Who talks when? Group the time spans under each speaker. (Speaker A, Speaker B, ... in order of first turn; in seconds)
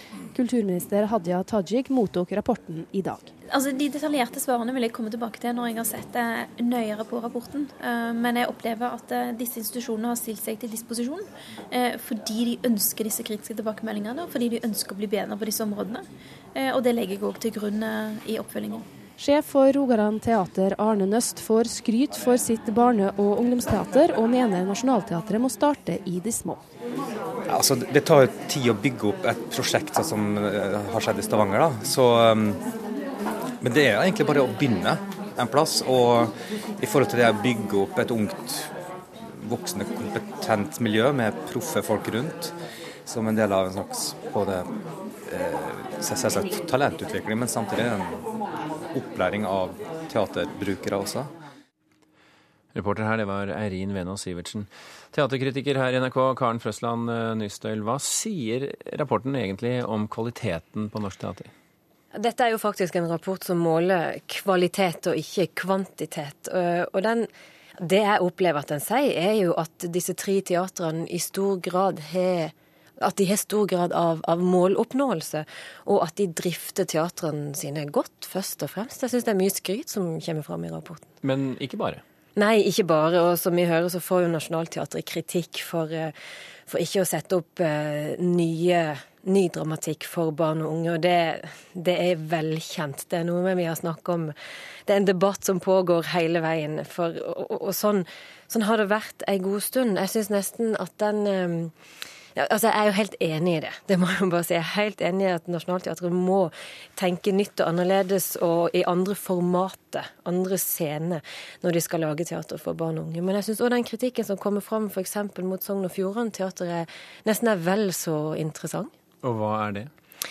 Speaker A: 0.3-3.3, 19.2-26.6
Speaker B: 3.5-18.9
Speaker C: 27.5-32.6, 33.6-38.7, 39.4-42.5, 43.0-44.7, 45.2-48.2, 48.9-51.3
Speaker D: 52.7-61.5, 81.2-82.0, 119.2-119.9
Speaker E: 62.1-81.1, 82.3-86.1, 86.7-94.3, 94.8-101.7, 102.3-118.9